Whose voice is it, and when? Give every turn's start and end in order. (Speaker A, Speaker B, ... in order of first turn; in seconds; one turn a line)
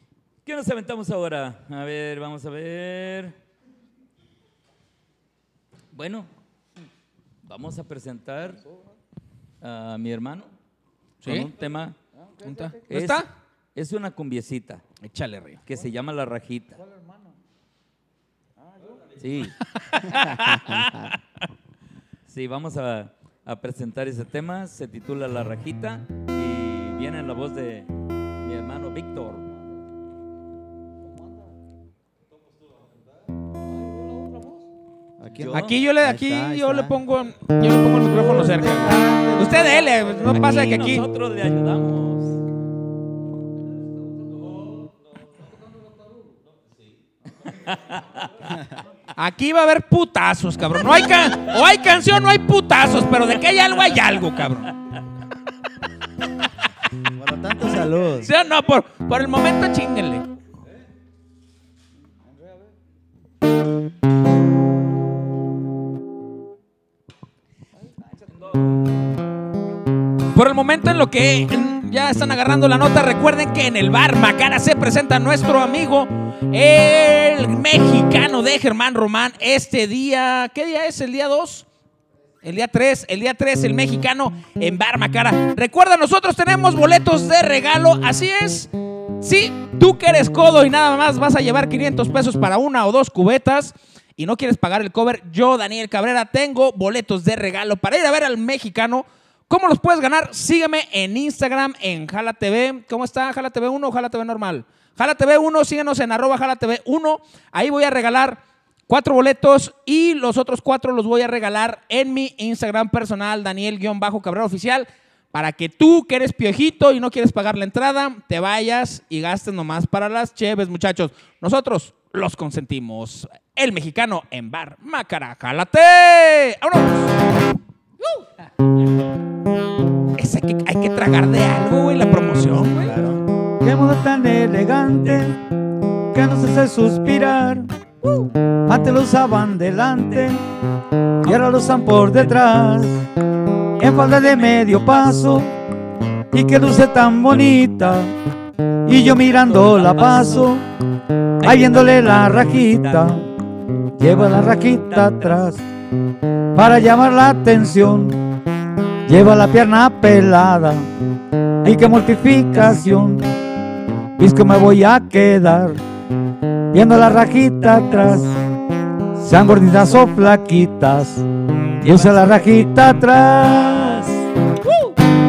Speaker A: 0.5-3.4
Speaker A: 5.9-6.3
Speaker A: 7.4-8.6
Speaker A: 9.6-10.5
Speaker B: 11.2-11.5
Speaker A: 11.2-12.0
Speaker B: 12.4-13.3
Speaker A: 12.9-14.8
Speaker B: 15.0-15.6
Speaker A: 15.6-16.8
Speaker A: 19.2-19.6
Speaker B: 19.7-21.2
Speaker A: 22.3-29.5
Speaker C: 35.2-37.0
Speaker A: 35.4-35.8
Speaker B: 35.5-41.0
Speaker C: 38.2-40.1
Speaker A: 40.3-42.4
Speaker A: 47.7-48.2
Speaker C: 48.5-48.8
Speaker B: 49.2-54.8
Speaker C: 57.1-58.3
Speaker B: 58.2-60.2
Speaker B: 70.3-81.7
Speaker B: 82.4-88.7
Speaker B: 89.2-127.4
Speaker B: 130.2-132.9
Speaker C: 132.8-133.2
Speaker D: 133.6-135.4
Speaker D: 136.1-137.7
Speaker D: 138.7-140.4
Speaker D: 141.2-143.0
Speaker D: 143.8-145.5
Speaker A: 144.4-144.8
Speaker D: 146.3-148.1
Speaker D: 148.9-150.6
Speaker A: 149.4-150.5
Speaker A: 151.4-153.2
Speaker D: 151.4-153.2
Speaker D: 154.0-155.6
Speaker D: 156.6-158.2
Speaker D: 159.1-160.9
Speaker D: 161.6-163.3
Speaker D: 164.2-165.8
Speaker D: 166.7-168.4
Speaker D: 169.2-171.3
Speaker D: 171.8-174.1
Speaker A: 171.8-172.4